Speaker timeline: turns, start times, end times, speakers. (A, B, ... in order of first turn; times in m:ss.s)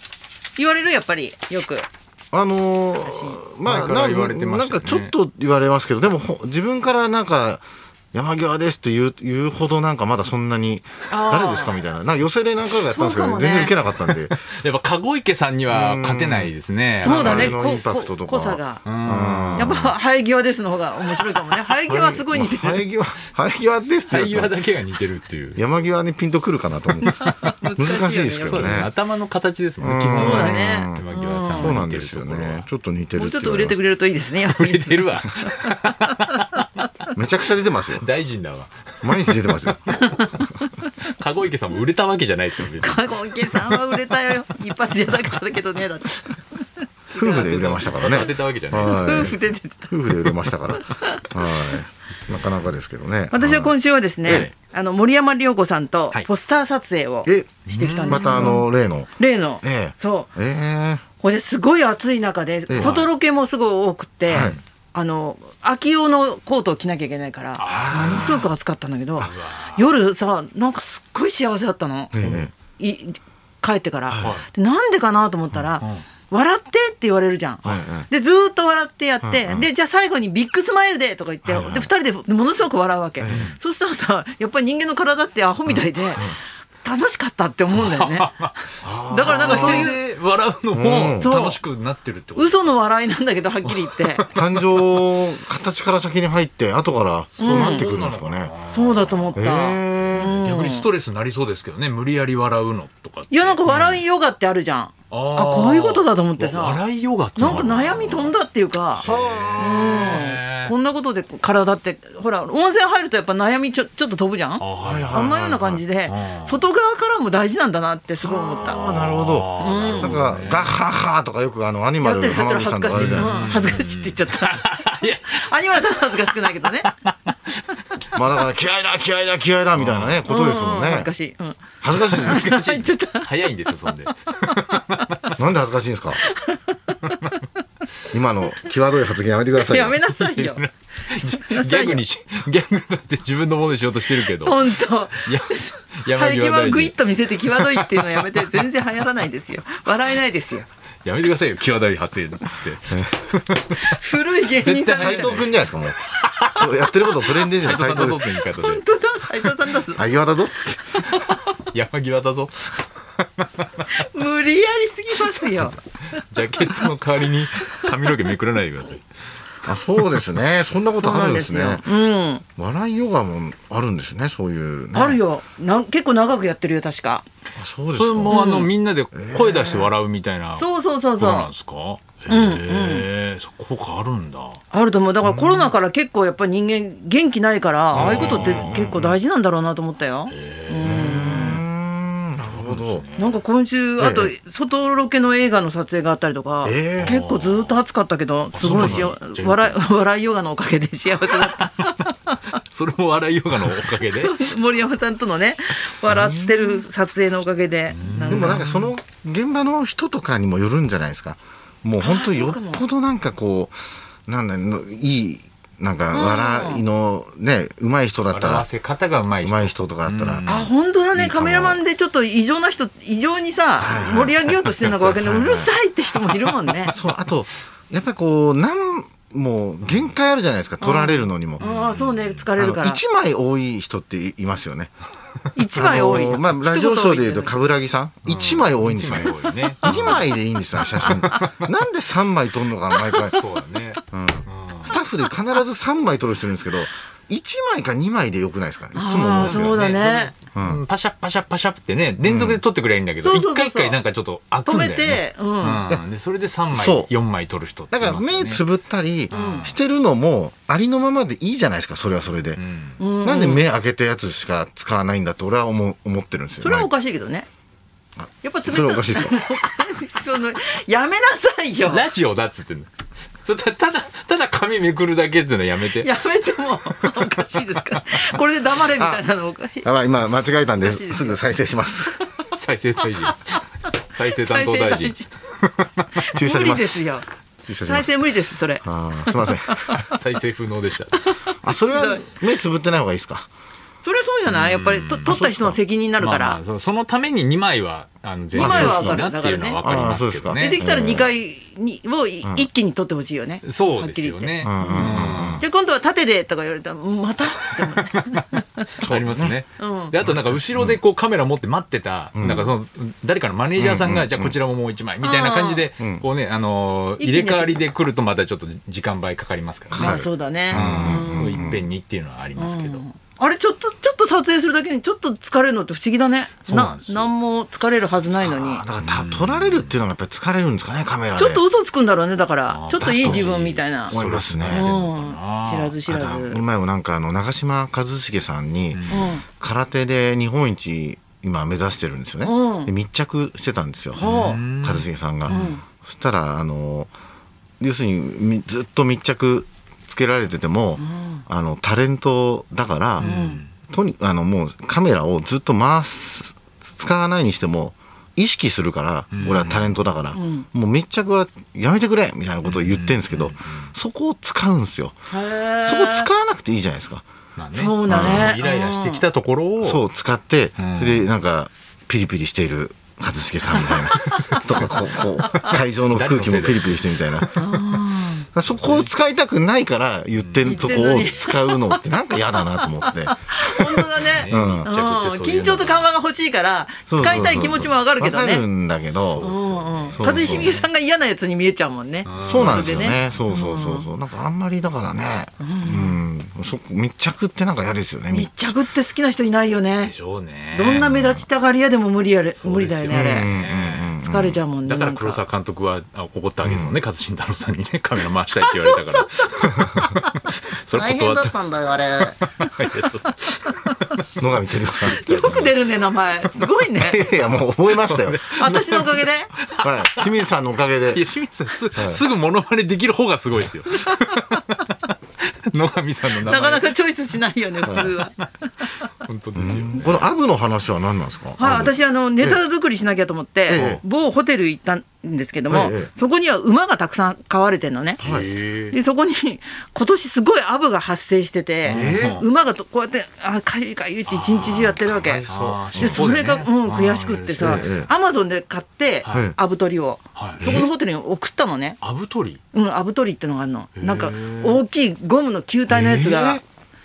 0:00.6-0:01.8 A
0:02.3-0:14.4 B
0:03.0-0:03.4 A
0:03.6-0:05.1 C
0:11.1-0:11.8 A
0:12.8-0:13.8 A
0:14.4-0:17.6 C
0:15.7-0:20.0 B
0:17.0-0:18.8 A
0:18.8-0:19.7 C
0:19.6-0:22.8 A
0:21.9-0:24.5 B
0:24.1-0:25.6 C
0:25.5-0:28.9 B
0:27.0-0:27.5 C
0:27.2-0:28.8 A
0:28.4-0:32.6 C
0:29.8-0:31.0 B
0:30.1-0:31.8 A
0:31.6-0:33.8 B
0:33.1-0:36.6 A
0:34.4-0:36.9 C
0:37.1-0:38.0 B
0:37.9-0:40.4 C
0:39.0-0:40.4 B
0:41.0-0:43.0 C
0:42.8-0:46.6 A
0:47.1-0:49.4 C
0:47.1-0:49.4 B
0:48.8-0:49.9 A
0:49.9-0:53.7 B
0:50.7-0:51.2 A
0:53.3-1:00.3 A
0:54.3-0:54.5 C
0:57.2-0:57.5 B
0:57.7-0:58.6 C
0:58.1-1:01.0 B
1:01.2-1:26.3 A
1:02.7-1:03.1 B
1:02.7-1:03.1 C
1:04.3-1:04.6 B
1:04.3-1:04.6 C
1:07.6-1:08.5 C
1:07.7-1:08.4 B
1:09.2-1:09.8 C
1:12.1-1:12.5 B
1:12.2-1:12.5 C
1:14.1-1:14.4 B
1:14.2-1:14.4 C
1:17.6-1:18.1 B
1:19.2-1:19.7 B
1:21.4-1:21.9 B
1:23.2-1:23.5 B
1:23.3-1:23.6 C
1:26.8-1:30.0 A
1:27.7-1:32.6 C
1:29.1-1:29.9 B
1:30.7-1:31.3 B
1:31.2-1:31.6 A
1:32.4-1:34.2 A
1:33.6-1:34.6 C
1:34.3-1:38.5 B
1:37.3-1:39.4 C
1:37.4-1:37.9 A
1:38.7-1:40.8 A
1:39.3-1:40.4 B
1:40.0-1:44.0 C
1:43.3-1:46.8 A
1:45.1-1:48.3 C
1:47.4-1:49.0 A
1:49.0-1:50.7 C
1:49.0-1:50.2 B
1:49.6-1:58.8 A
1:54.6-1:55.4 C
1:54.8-1:55.8 B
1:56.0-1:56.6 C
1:58.2-2:03.4 B
1:58.6-2:00.8 C
1:59.6-2:00.2 A
2:02.0-2:06.9 A
2:02.9-2:07.6 C
2:08.1-2:11.1 B
2:09.7-2:10.3 C
2:10.3-2:13.3 A
2:11.8-2:12.4 B
2:12.1-2:15.4 C
2:13.8-2:15.0 A
2:15.3-2:16.2 B
2:16.2-2:17.0 A
2:17.0-2:17.4 C
2:18.1-2:20.0 B
2:19.6-2:20.6 A
2:20.1-2:28.7 C
2:21.2-2:22.0 A
2:24.1-2:30.7 A
2:31.0-2:34.0 C
2:33.8-2:35.5 A
2:34.6-2:38.8 C
2:34.9-2:38.3 B
2:37.7-2:40.1 A
2:39.9-2:41.2 B
2:41.7-2:44.0 C
2:43.9-2:45.8 A
2:46.2-2:49.0 C
2:49.6-2:51.8 B
2:51.0-2:52.4 A
2:52.6-2:55.2 B
2:54.9-2:57.2 A
2:57.6-2:58.4 B
2:58.0-3:00.7 C
2:58.3-2:58.7 A
2:59.1-2:59.9 B
3:00.6-3:01.5 A
3:01.2-3:04.6 C
3:02.3-3:03.1 A
3:04.7-3:11.6 A
3:05.2-3:05.7 C
3:07.9-3:08.9 C
3:07.9-3:09.2 B
3:10.3-3:11.6 C
3:10.8-3:13.0 B
3:12.5-3:13.4 C
3:13.2-3:22.4 A
3:14.0-3:14.3 B
3:16.6-3:17.2 B
3:16.9-3:17.8 C
3:18.5-3:19.8 C
3:18.6-3:19.1 B
3:21.3-3:24.5 C
3:23.9-3:28.7 A
3:26.0-3:26.8 B
3:27.9-3:28.9 C
3:28.2-3:33.7 B
3:32.0-3:32.8 A
3:34.3-3:38.6 B
3:36.1-3:36.8 A
3:38.3-3:40.7 C
3:39.4-3:41.8 B
3:40.5-3:46.9 A
3:43.8-3:45.7 B
3:46.4-3:46.9 C
3:46.9-3:51.6 B
3:50.8-3:53.0 A
3:51.6-3:52.4 C
3:52.6-3:54.9 B
3:55.5-3:57.5 A
3:55.7-4:03.4 B
3:58.2-4:00.3 C
4:00.8-4:01.6 C
4:03.3-4:05.0 C
4:04.1-4:09.8 B
4:08.9-4:10.3 A
4:09.4-4:18.6 C
4:10.5-4:10.8 B
4:12.2-4:12.6 B
4:13.2-4:14.0 A
4:14.6-4:16.0 A
4:16.7-4:17.1 B
4:17.9-4:22.6 B
4:19.3-4:19.8 C
4:19.3-4:19.7 A
4:22.5-4:23.0 C
4:23.0-4:23.6 A
4:23.2-4:26.9 B
4:26.6-4:27.5 A
4:28.4-4:32.1 A
4:28.6-4:29.4 B
4:31.8-4:32.9 C
4:33.4-4:36.1 C
4:35.9-4:39.9 A
4:37.0-4:38.0 C
4:38.9-4:39.2 B
4:39.8-4:42.2 B
4:40.8-4:41.4 A
4:42.5-4:43.5 C
4:43.2-4:43.5 A
4:44.1-4:46.1 C
4:44.2-4:45.2 A
4:46.2-4:47.2 A
4:46.3-4:47.0 B
4:47.7-4:48.1 B
4:47.8-4:50.0 A
4:48.8-4:50.0 B
4:50.1-4:51.2 C
4:51.2-4:52.3 A
4:51.6-4:53.5 B
4:54.0-4:56.6 A
4:54.5-4:55.3 C
4:55.2-4:55.8 B
4:56.2-5:00.8 C
4:58.5-4:59.8 A
4:58.6-4:59.2 B
4:59.8-5:01.3 B
5:00.5-5:08.9 A
5:02.4-5:02.7 B
5:03.6-5:05.6 C
5:04.6-5:05.6 B
5:07.7-5:08.4 C
5:09.0-5:23.0 C
5:09.0-5:09.5 B
5:09.8-5:10.2 A
5:10.2-5:11.0 B
5:12.3-5:12.7 B
5:13.8-5:14.6 B
5:15.2-5:15.9 A
5:16.0-5:16.2 B
5:17.2-5:17.8 A
5:19.9-5:21.8 B
5:20.0-5:21.6 A
5:22.6-5:28.8 A
5:26.6-5:27.3 C
5:28.4-5:31.6 B
5:29.0-5:30.0 C
5:31.4-5:36.6 A
5:32.7-5:35.9 C
5:32.9-5:33.5 B
5:34.1-5:35.0 B
5:36.0-5:47.1 B
5:38.9-5:39.3 C
5:39.1-5:39.4 A
5:42.4-5:42.9 A
5:44.2-5:44.6 A
5:44.2-5:45.7 C
5:45.5-5:45.8 A
5:47.8-5:53.3 B
5:51.0-5:51.4 A
5:53.2-5:53.7 C
5:53.2-5:53.6 A
5:53.9-6:05.1 B
5:59.3-6:00.0 C
6:00.3-6:00.6 A
6:02.6-6:03.9 C
6:05.3-6:06.3 A
6:05.8-6:07.2 B
6:07.6-6:10.0 C
6:07.7-6:09.2 A
6:08.1-6:08.5 B
6:09.8-6:17.7 B
6:10.8-6:11.3 C
6:13.8-6:17.5 C
6:17.5-6:18.5 A
6:18.5-6:24.9 B
6:18.7-6:19.1 C
6:20.4-6:21.0 C
6:20.6-6:22.0 A
6:23.1-6:28.6 A
6:24.1-6:26.1 C
6:27.1-6:29.5 B
6:27.2-6:27.9 C
6:29.2-6:30.9 C
6:29.4-6:34.1 A
6:30.1-6:30.8 B
6:32.2-6:33.4 C
6:32.4-6:38.7 B
6:35.6-6:36.2 A
6:38.3-6:40.1 A
6:40.0-6:41.1 C
6:40.7-6:43.5 A
6:40.9-6:41.4 B
6:42.6-6:44.2 C
6:43.1-6:44.6 B
6:44.2-6:45.4 A
6:44.8-6:54.2 C
6:46.6-6:47.0 B
6:48.6-6:49.5 A
6:50.9-6:53.7 A
6:54.4-6:55.7 B
6:55.1-6:57.2 A
6:55.1-6:55.8 C
6:57.0-6:58.4 B
6:57.9-7:00.3 C
6:58.5-6:59.5 A
6:59.8-7:01.2 B
7:01.1-7:05.1 C
7:01.9-7:02.2 B
7:05.7-7:06.9 C
7:06.4-7:08.9 A
7:07.8-7:08.4 C
7:09.0-7:10.3 C
7:09.5-7:12.6 B
7:11.6-7:18.2 A
7:13.7-7:14.0 B
7:13.7-7:14.0 C
7:15.7-7:16.1 B
7:18.2-7:18.5 B
7:18.2-7:19.0 C
7:18.9-7:32.0 A
7:21.9-7:22.4 C
7:21.9-7:22.4 B
7:24.3-7:28.0 C
7:25.0-7:26.2 B
7:27.6-7:28.1 B
7:29.2-7:29.5 C
7:29.3-7:29.6 B
7:30.3-7:30.7 C
7:30.6-7:30.9 B
7:32.0-7:32.6 C
7:32.7-7:36.6 A
7:34.0-7:34.8 C
7:35.9-7:36.6 B